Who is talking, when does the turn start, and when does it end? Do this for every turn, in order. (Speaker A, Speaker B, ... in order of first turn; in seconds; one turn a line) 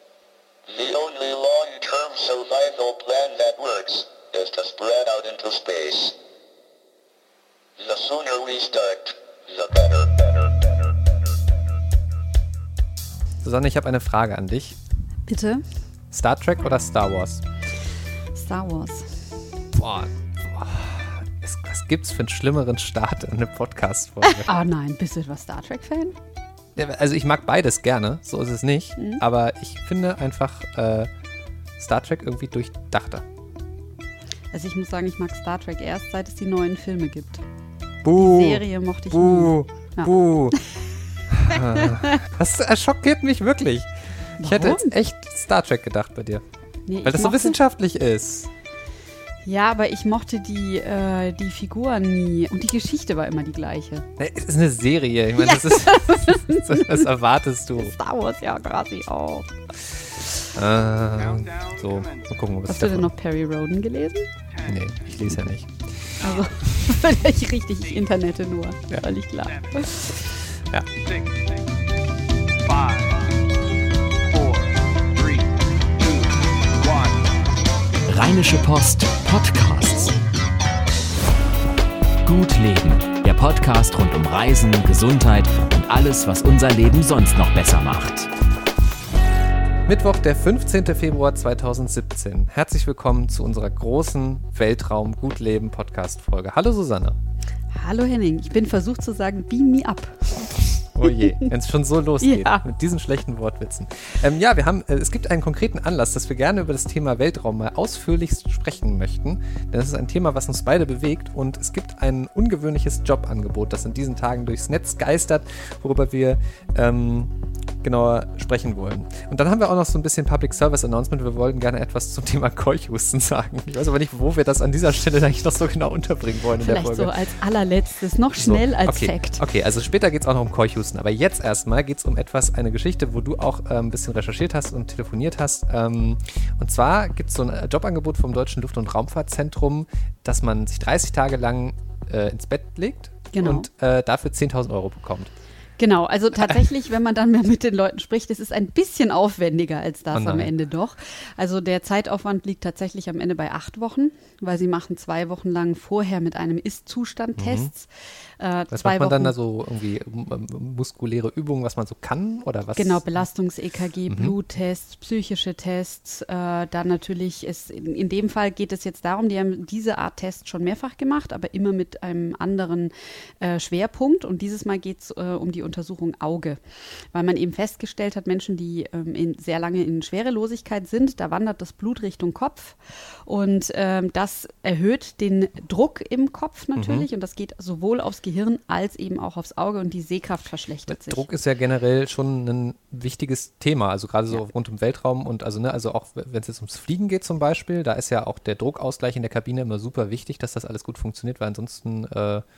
Speaker A: 0.7-6.2
Speaker A: 7.8-11.6
Speaker B: 13.4-14.8
Speaker C: 15.3-15.6
Speaker B: 16.1-17.4
Speaker C: 18.3-19.2
Speaker B: 19.7-24.5
Speaker C: 24.3-26.1
Speaker B: 26.8-31.1
Speaker C: 29.0-29.2
Speaker B: 31.8-33.2
Speaker C: 34.5-37.4
Speaker B: 38.0-40.6
Speaker C: 38.1-40.6
Speaker B: 41.3-46.4
Speaker C: 41.5-42.2
Speaker C: 44.4-44.9
Speaker C: 46.9-47.5
Speaker B: 47.0-48.5
Speaker C: 49.4-54.1
Speaker B: 54.2-57.9
Speaker C: 55.4-57.0
Speaker C: 57.8-59.5
Speaker B: 60.5-63.1
Speaker D: 61.1-62.4
Speaker C: 62.7-64.3
Speaker D: 64.5-65.1
Speaker B: 64.6-66.1
Speaker D: 66.2-66.8
Speaker C: 66.2-70.3
Speaker D: 67.8-68.1
Speaker D: 69.4-70.3
Speaker D: 71.0-71.8
Speaker D: 72.6-73.4
Speaker D: 74.3-77.3
Speaker E: 78.1-80.2
Speaker E: 82.2-88.3
Speaker B: 89.8-97.2
Speaker C: 97.7-101.5
Speaker B: 100.9-127.1
Speaker C: 102.2-102.6
Speaker C: 126.6-129.4
Speaker B: 128.4-145.3
Speaker C: 143.3-143.7
Speaker C: 145.8-159.3
Speaker B: 150.1-150.5
Speaker B: 157.4-157.7
Speaker B: 158.7-163.2
Speaker C: 162.8-176.6
Speaker B: 164.1-164.3
Speaker C: 177.1-191.2
Speaker B: 186.8-187.1
Speaker B: 190.9-202.4